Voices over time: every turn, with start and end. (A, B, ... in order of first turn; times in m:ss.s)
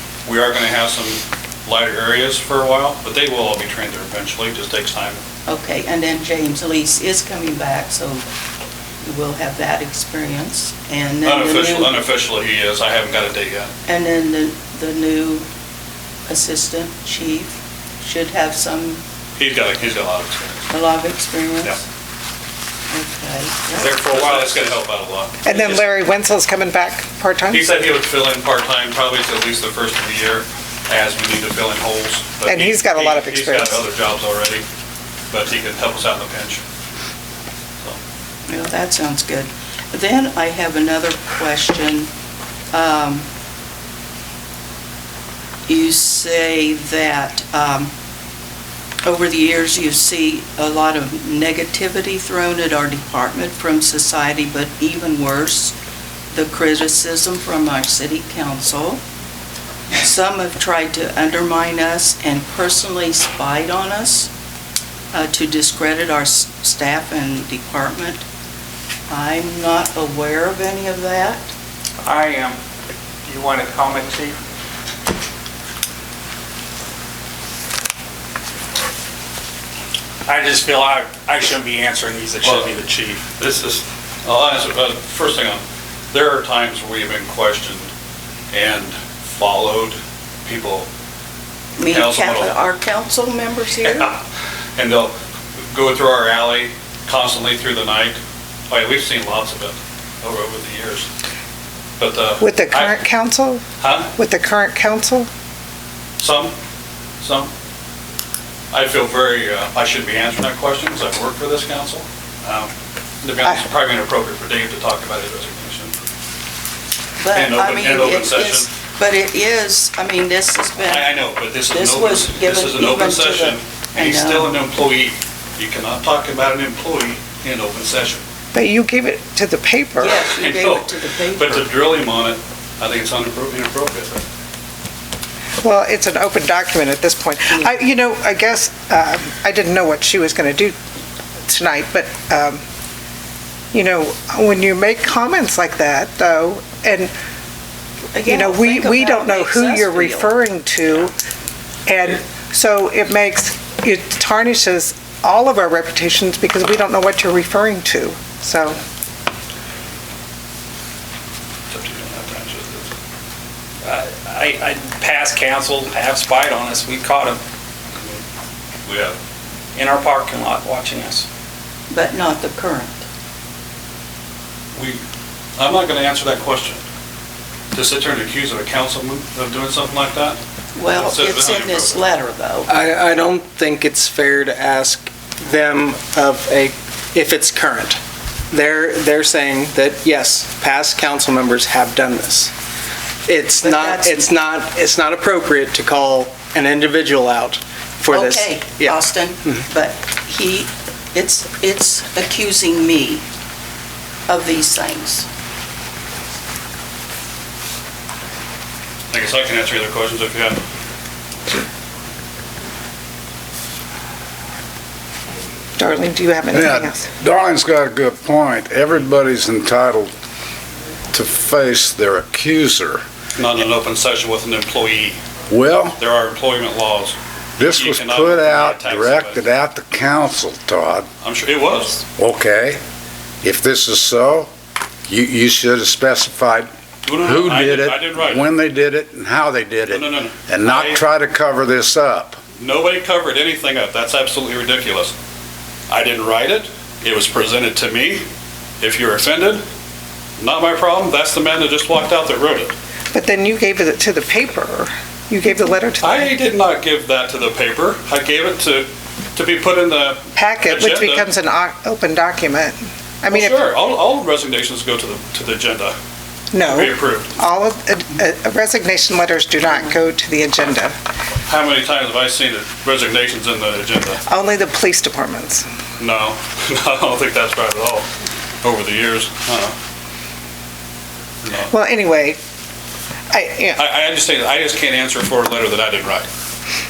0:00.3-0:05.2 A
0:05.5-0:08.3 B
0:09.0-0:12.0 B
0:11.2-0:13.7 A
0:13.9-0:15.5 B
0:16.3-0:19.0 B
0:19.4-0:20.7 A
0:20.7-0:21.8 B
0:22.9-0:24.0 B
0:23.8-0:25.8 A
0:24.1-0:24.4 C
0:25.4-0:27.7 D
0:27.5-0:34.6 A
0:32.5-0:33.8 D
0:35.3-0:36.6 A
0:38.5-0:42.1 B
0:42.7-0:43.3 B
0:45.7-0:47.9 B
0:49.0-0:55.8 B
0:56.3-0:59.0 B
0:59.9-1:04.3 B
1:05.1-1:08.2 B
1:09.1-1:11.5 B
1:12.0-1:12.6 C
1:13.3-1:14.4 C
1:20.3-1:23.2 C
1:23.4-1:27.9 A
1:28.5-1:30.9 A
1:31.8-1:34.1 B
1:31.9-1:32.5 A
1:33.8-1:34.2 A
1:34.8-1:35.1 A
1:35.7-1:38.2 A
1:38.7-1:41.1 A
1:42.0-1:42.9 A
1:42.4-1:43.6 D
1:43.8-1:44.1 A
1:44.2-1:45.3 D
1:46.2-1:46.5 A
1:47.2-1:47.5 A
1:48.7-1:55.9 A
1:57.2-2:04.5 B
1:57.3-1:58.7 A
2:00.8-2:08.2 A
2:08.5-2:10.2 D
2:10.0-2:11.7 B
2:10.0-2:14.2 A
2:15.6-2:20.8 D
2:21.5-2:22.6 D
2:23.7-2:27.1 D
2:28.1-2:30.3 B
2:28.3-2:31.2 D
2:31.9-2:38.8 D
2:41.7-2:42.9 A
2:43.8-2:47.4 C
2:48.8-2:49.2 A
2:49.8-2:51.3 C
2:51.9-2:53.0 B
2:54.8-2:55.0 A
2:55.6-2:56.8 A
2:57.7-3:02.0 A
3:00.8-3:02.7 B
3:02.7-3:08.0 E
3:08.5-3:12.5 E
3:13.2-3:19.6 E
3:13.6-3:14.3 B
3:18.1-3:23.2 B
3:24.3-3:25.3 B
3:29.1-3:30.6 A
3:35.8-3:37.1 D
3:36.5-3:40.1 F
3:41.1-3:43.0 F
3:43.4-3:45.2 A
3:45.5-3:46.0 F
3:46.0-3:49.4 A
3:47.6-3:51.1 F
3:51.2-3:52.0 A
3:52.2-3:52.8 F
3:53.4-3:54.5 F
3:55.1-4:02.4 F
3:57.0-3:58.5 A
3:59.9-4:01.0 A
4:02.6-4:05.2 A
4:05.9-4:08.2 A
4:08.8-4:09.6 A
4:10.4-4:12.7 A
4:13.1-4:16.3 D
4:16.0-4:21.3 A
4:20.4-4:23.7 D
4:23.3-4:26.0 A
4:26.5-4:30.9 D
4:26.6-4:27.4 A
4:31.5-4:34.2 A
4:34.3-4:35.6 D
4:36.0-4:38.1 A
4:38.6-4:39.8 A
4:41.4-4:41.7 A
4:41.7-4:42.4 D
4:43.3-4:43.8 D
4:43.8-4:46.3 A